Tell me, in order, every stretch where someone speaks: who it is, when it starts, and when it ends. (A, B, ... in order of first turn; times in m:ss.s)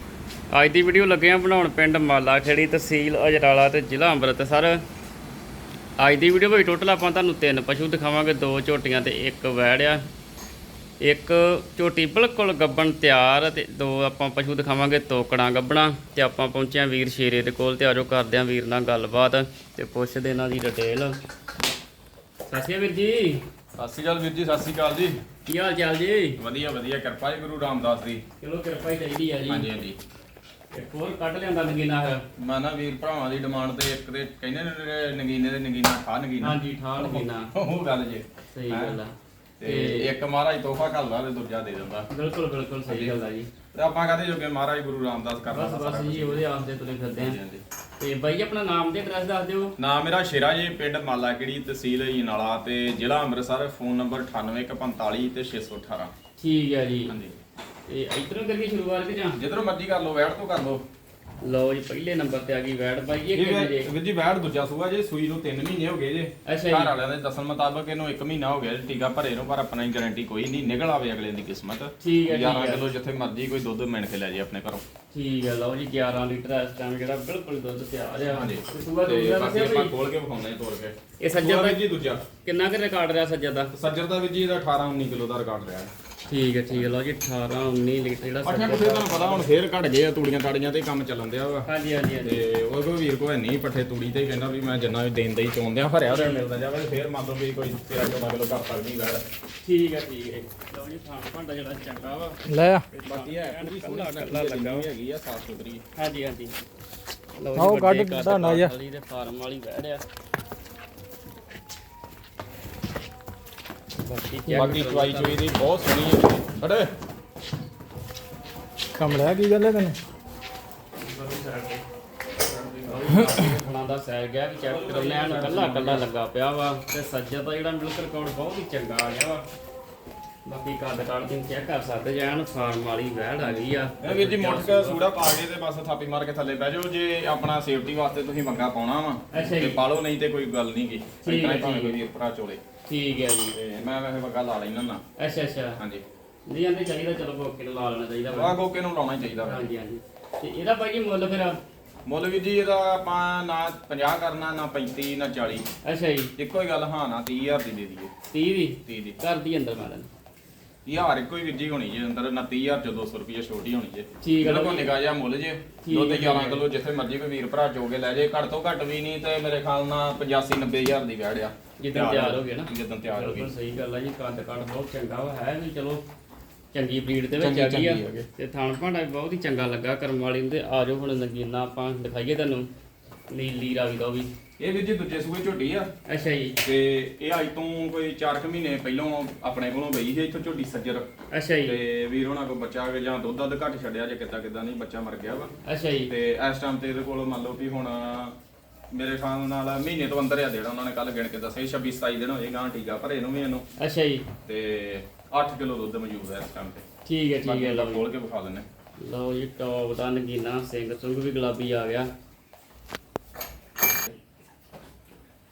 0:00.5-0:04.8 A
0:06.0-0:10.0 A
0:11.0-0:21.2 A
0:22.5-0:23.4 A
0:23.8-0:25.2 B
0:25.4-0:26.4 A
0:26.4-0:28.2 B
0:28.4-0:29.8 A
0:29.4-0:30.0 B
0:30.7-0:32.2 A
0:32.4-0:39.0 B
0:36.4-0:37.5 A
0:38.5-0:39.1 A
0:39.6-0:42.1 B
0:39.6-0:40.1 A
0:42.1-0:43.5 A
0:42.9-0:43.2 B
0:43.7-0:46.4 B
0:45.5-0:47.4 A
0:47.2-0:47.6 B
0:48.0-0:49.8 A
0:49.8-0:56.1 B
0:56.4-0:57.1 A
0:57.1-0:57.4 B
0:57.9-0:59.4 A
0:59.4-1:00.8 B
1:01.4-1:03.9 A
1:03.3-1:14.8 B
1:06.4-1:06.9 A
1:12.0-1:12.8 A
1:15.1-1:19.9 A
1:18.3-1:22.2 B
1:21.2-1:21.8 A
1:22.4-1:23.7 A
1:23.7-1:25.9 B
1:26.3-1:29.6 A
1:28.4-1:31.7 B
1:31.6-1:32.4 A
1:32.2-1:39.2 B
1:36.1-1:36.4 A
1:39.6-1:44.8 A
1:42.5-1:42.8 C
1:43.0-1:45.8 B
1:46.0-1:46.6 A
1:47.4-1:50.0 A
1:47.5-1:48.7 C
1:54.1-1:55.5 A
1:54.5-1:56.9 B
1:59.0-2:00.0 C
2:01.0-2:01.8 A
2:02.5-2:03.3 B
2:02.8-2:09.4 A
2:04.6-2:06.1 B
2:10.4-2:15.0 A
2:13.4-2:22.6 B
2:19.3-2:19.8 A
2:21.2-2:22.0 A
2:22.9-2:23.6 A
2:23.5-2:25.0 B
2:25.2-2:25.8 A
2:26.5-2:28.6 A
2:28.3-2:29.7 B
2:29.4-2:31.6 A
2:32.0-2:35.7 B
2:35.8-2:36.3 A
2:36.4-2:38.1 B
2:38.3-2:40.1 A
2:38.8-2:39.2 B
2:40.8-2:53.5 B
2:44.2-2:44.9 A
2:45.8-2:46.6 A
2:51.8-2:56.0 A
2:56.7-3:02.7 A
2:57.4-2:58.3 B
3:03.3-3:04.3 A
3:04.6-3:05.9 B
3:06.0-3:06.6 A
3:06.6-3:11.1 B
3:11.3-3:11.8 A
3:11.6-3:15.5 B
3:15.6-3:16.1 A
3:16.1-3:18.4 B
3:18.9-3:23.6 B
3:23.8-3:24.2 A
3:24.4-3:26.8 B
3:27.0-3:28.0 A
3:27.4-3:28.7 B
3:29.0-3:32.1 A